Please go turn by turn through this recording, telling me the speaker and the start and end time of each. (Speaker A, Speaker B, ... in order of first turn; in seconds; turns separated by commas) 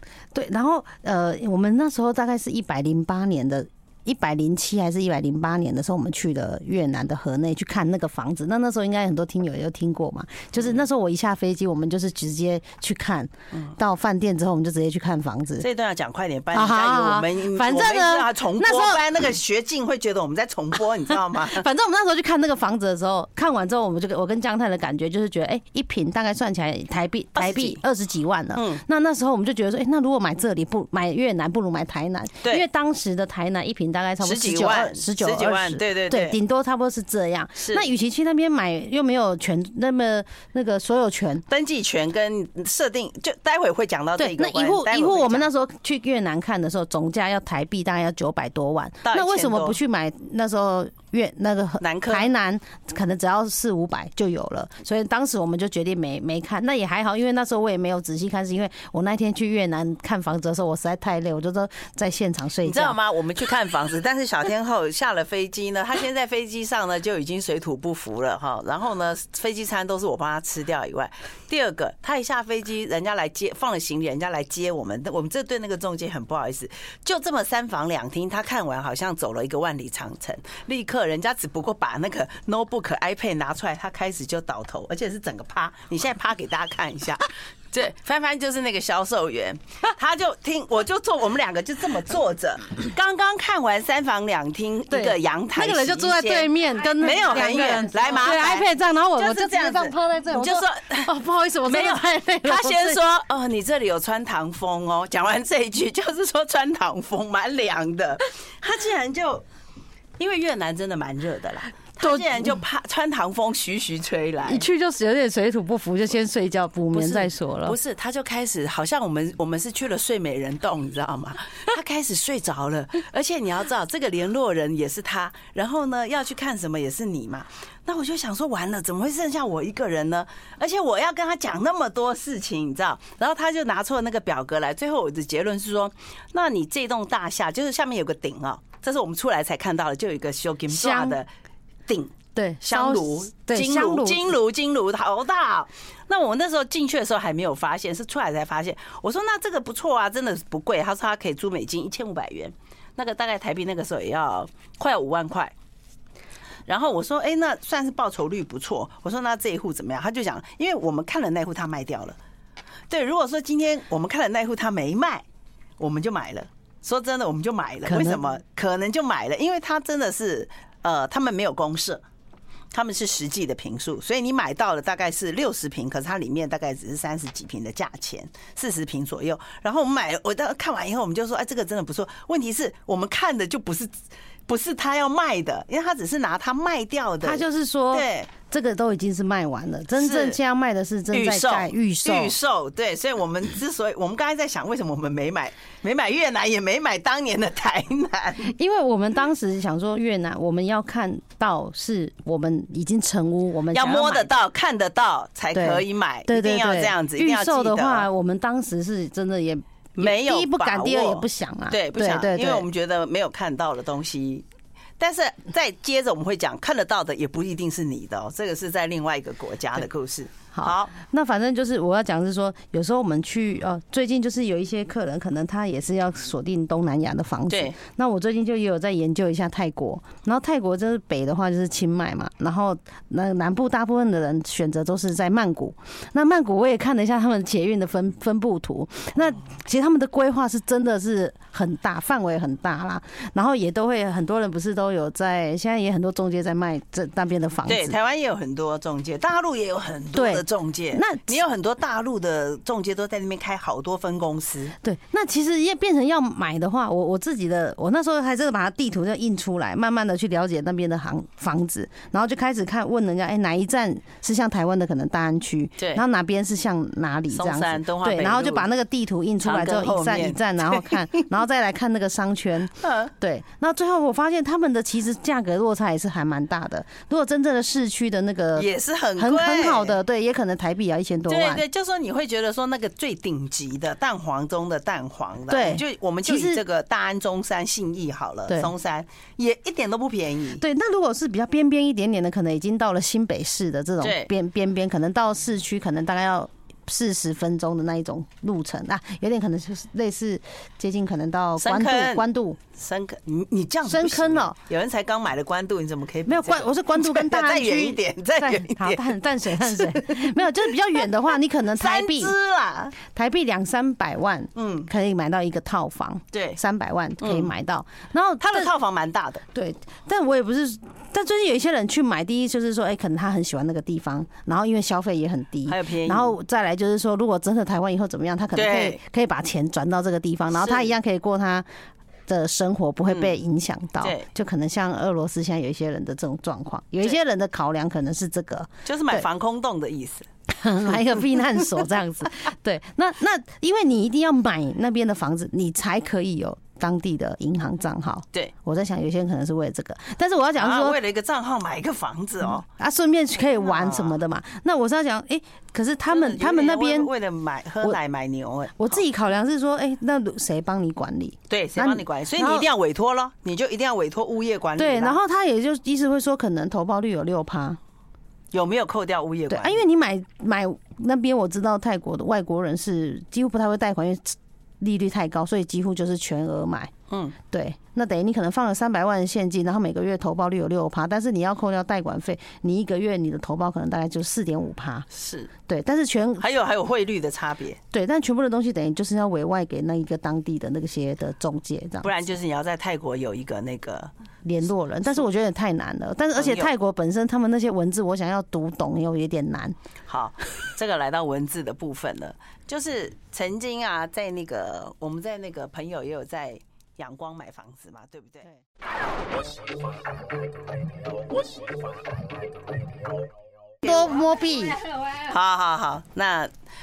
Speaker A: 0.3-15.7, Speaker B: 15.6-21.7, Speaker A: 16.5-19.0, Speaker A: 21.1-41.4, Speaker B: 27.3-27.8, Speaker B: 28.5-28.8, Speaker B: 34.2-36.4, Speaker B: 37.6-37.9, Speaker B: 41.5-45.5, Speaker A: 44.2-63.0, Speaker B: 49.0-49.8, Speaker B: 51.8-52.3, Speaker B: 62.6-101.1, Speaker A: 94.9-103.0, Speaker C: 96.8-98.3, Speaker B: 101.6-109.4, Speaker B: 110.2-114.7, Speaker A: 112.0-112.6, Speaker A: 114.5-117.8, Speaker B: 116.9-141.3, Speaker A: 140.7-141.2, Speaker B: 141.9-155.5, Speaker A: 142.3-144.3, Speaker B: 156.7-162.2, Speaker B: 162.9-165.2, Speaker B: 165.8-172.0, Speaker A: 167.8-168.2, Speaker B: 172.7-183.9, Speaker B: 184.5-188.3, Speaker A: 187.2-192.3, Speaker B: 190.0-190.4, Speaker B: 191.1-198.5, Speaker A: 198.4-204.3, Speaker B: 203.7-208.1, Speaker A: 205.5-212.7, Speaker B: 209.9-214.4, Speaker B: 215.0-220.9, Speaker A: 220.5-247.9, Speaker B: 227.5-227.8, Speaker B: 247.7-254.8, Speaker A: 250.1-251.3, Speaker A: 254.8-281.6, Speaker B: 265.8-266.0, Speaker B: 267.3-268.7, Speaker B: 269.4-271.2, Speaker B: 272.8-273.1, Speaker B: 278.6-280.0, Speaker B: 281.3-290.6, Speaker A: 285.5-286.6, Speaker A: 290.6-302.6, Speaker B: 294.0-294.3, Speaker B: 301.6-310.4, Speaker A: 303.9-304.6, Speaker A: 306.3-312.3, Speaker B: 311.7-312.9, Speaker A: 313.0-318.7, Speaker B: 314.5-314.9, Speaker B: 316.3-316.6, Speaker B: 317.2-317.5, Speaker B: 318.4-319.4, Speaker A: 319.5-331.6, Speaker B: 325.6-326.3, Speaker B: 328.5-329.0, Speaker B: 330.5-330.9, Speaker A: 332.3-339.2, Speaker B: 334.0-334.2, Speaker B: 338.8-340.3, Speaker A: 340.5-351.0, Speaker B: 350.6-352.6, Speaker A: 352.6-357.1, Speaker B: 353.6-354.2, Speaker B: 356.1-359.0, Speaker A: 358.8-362.7, Speaker B: 361.5-365.2, Speaker A: 364.8-367.8, Speaker B: 368.5-369.8, Speaker A: 369.5-376.9, Speaker B: 377.1-377.3, Speaker A: 377.5-385.1, Speaker B: 385.1-385.5, Speaker A: 385.7-386.4, Speaker B: 386.4-387.8, Speaker A: 387.9-392.1, Speaker B: 392.0-394.1, Speaker A: 394.4-399.8, Speaker B: 396.4-396.7, Speaker B: 400.1-408.5, Speaker A: 413.8-414.8, Speaker C: 414.2-415.2, Speaker B: 415.1-416.5